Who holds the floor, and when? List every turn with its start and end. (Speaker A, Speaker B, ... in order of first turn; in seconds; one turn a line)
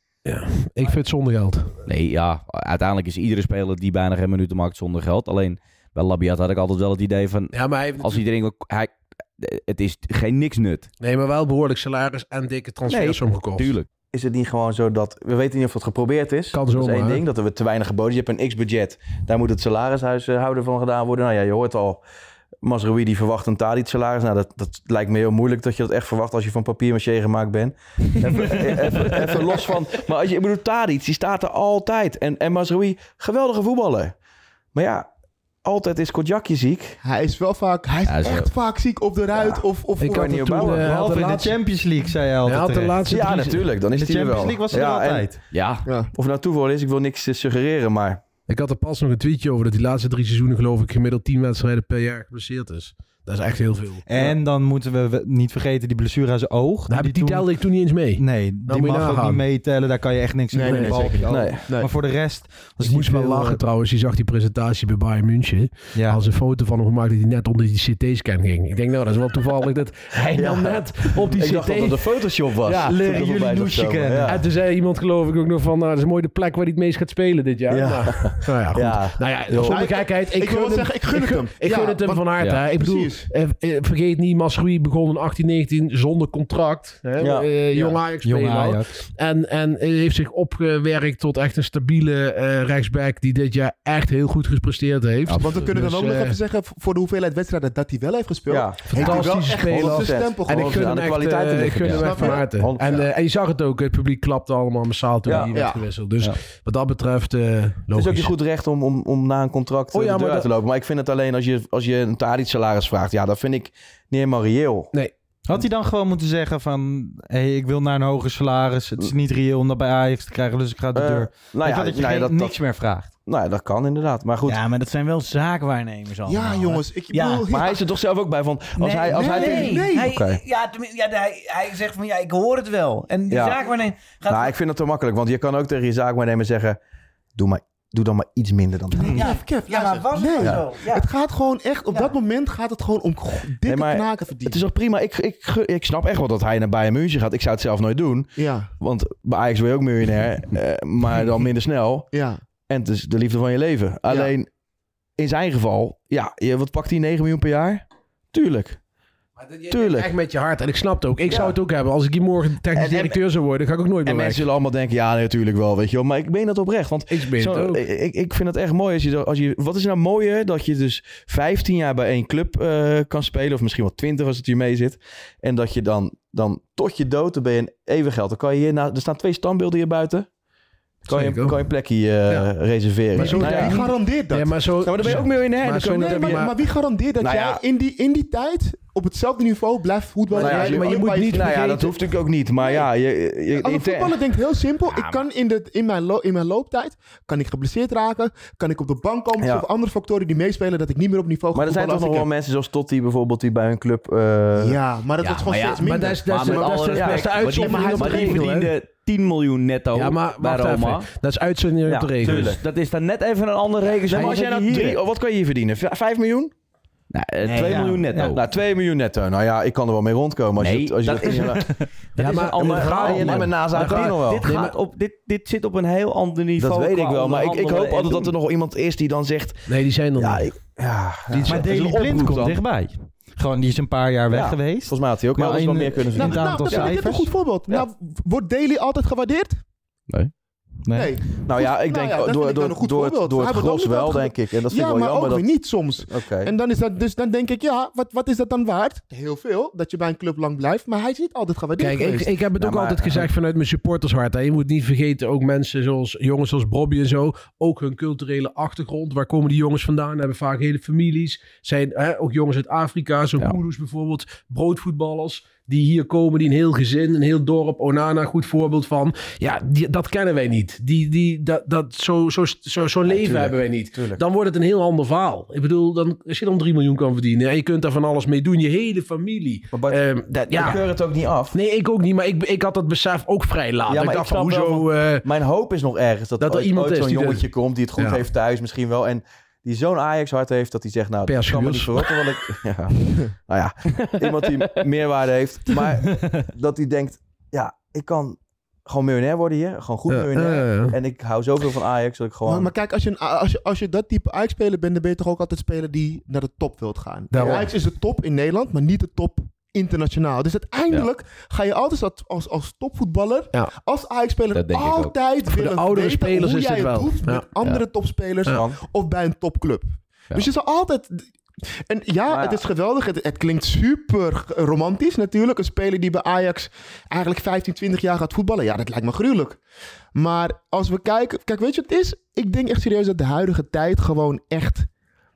Speaker A: 0.2-1.7
Speaker B: 1.9-10.9
Speaker A: 7.5-8.2
Speaker A: 11.0-13.7
Speaker C: 12.9-13.2
Speaker B: 13.1-13.9
Speaker C: 14.1-22.0
Speaker A: 16.5-17.2
Speaker C: 22.6-34.1
Speaker C: 34.7-35.1
Speaker C: 35.6-37.0
Speaker D: 37.0-40.8
Speaker B: 38.1-38.5
Speaker C: 39.3-40.9
Speaker A: 40.0-41.5
Speaker E: 40.8-43.0
Speaker A: 42.4-43.6
Speaker C: 43.1-45.4
Speaker E: 44.0-45.4
Speaker B: 45.5-45.8
Speaker C: 46.1-48.2
Speaker A: 48.5-54.3
Speaker E: 54.1-57.5
Speaker A: 56.9-59.4
Speaker E: 58.1-63.6
Speaker D: 60.5-61.5
Speaker A: 60.6-61.1
Speaker C: 61.3-61.6
Speaker A: 62.8-72.0
Speaker E: 65.9-66.2
Speaker C: 70.3-74.4
Speaker A: 72.6-72.9
Speaker E: 72.8-74.4
Speaker A: 74.2-96.4
Speaker C: 77.7-80.0
Speaker D: 79.6-83.3
Speaker C: 87.2-87.9
Speaker E: 88.2-88.9
Speaker D: 95.3-101.1
Speaker C: 98.5-103.0
Speaker A: 98.9-108.3
Speaker D: 101.9-102.5
Speaker C: 105.2-105.5
Speaker D: 105.5-105.9
Speaker C: 107.9-114.9
Speaker A: 109.9-110.5
Speaker E: 115.5-123.1
Speaker C: 120.9-122.6
Speaker C: 123.2-124.6
Speaker F: 124.4-127.5
Speaker D: 126.3-127.8
Speaker C: 127.5-130.4
Speaker F: 128.7-134.5
Speaker D: 129.1-130.1
Speaker C: 133.3-133.7
Speaker C: 134.3-136.8
Speaker C: 137.3-139.4
Speaker F: 138.9-141.1
Speaker D: 138.9-144.6
Speaker C: 140.4-140.6
Speaker C: 143.7-152.1
Speaker D: 148.4-148.7
Speaker D: 152.1-152.4
Speaker C: 152.7-154.5
Speaker C: 155.2-158.8
Speaker A: 159.3-164.5
Speaker C: 159.7-160.1
Speaker C: 161.3-161.6
Speaker C: 162.7-163.2
Speaker C: 164.0-180.3
Speaker A: 167.1-167.8
Speaker A: 181.1-181.6
Speaker C: 181.1-183.8
Speaker A: 183.1-186.5
Speaker D: 183.2-185.2
Speaker C: 184.8-186.5
Speaker D: 185.8-191.6
Speaker C: 187.2-187.6
Speaker C: 190.3-194.2
Speaker A: 190.3-191.9
Speaker D: 192.6-192.8
Speaker D: 193.6-202.3
Speaker B: 194.9-195.2
Speaker C: 199.4-199.7
Speaker C: 201.5-204.8
Speaker D: 204.6-208.6
Speaker B: 205.2-211.1
Speaker A: 205.8-208.7
Speaker C: 206.9-207.2
Speaker A: 209.9-212.6
Speaker B: 211.9-215.0
Speaker C: 212.2-212.6
Speaker C: 214.1-216.5
Speaker B: 217.1-218.4
Speaker F: 217.4-218.3
Speaker C: 217.6-221.7
Speaker B: 220.6-228.3
Speaker A: 222.2-224.8
Speaker C: 222.6-224.5
Speaker C: 226.6-232.6
Speaker A: 229.7-230.5
Speaker A: 231.3-232.0
Speaker E: 231.4-237.3
Speaker C: 234.3-236.9
Speaker D: 236.1-239.6
Speaker E: 240.8-241.1
Speaker D: 240.9-252.3
Speaker C: 241.4-245.5
Speaker C: 246.0-246.5
Speaker A: 251.8-280.9
Speaker C: 252.6-253.3
Speaker C: 273.1-274.2
Speaker C: 279.7-281.6
Speaker A: 281.5-285.2
Speaker C: 283.9-302.7
Speaker A: 286.4-287.4
Speaker A: 291.3-292.0
Speaker A: 300.1-300.9
Speaker D: 302.4-321.2
Speaker A: 307.3-307.7
Speaker B: 314.5-315.3
Speaker A: 315.4-317.5
Speaker C: 318.5-318.8
Speaker D: 321.9-329.6
Speaker C: 322.3-322.6
Speaker D: 330.1-334.9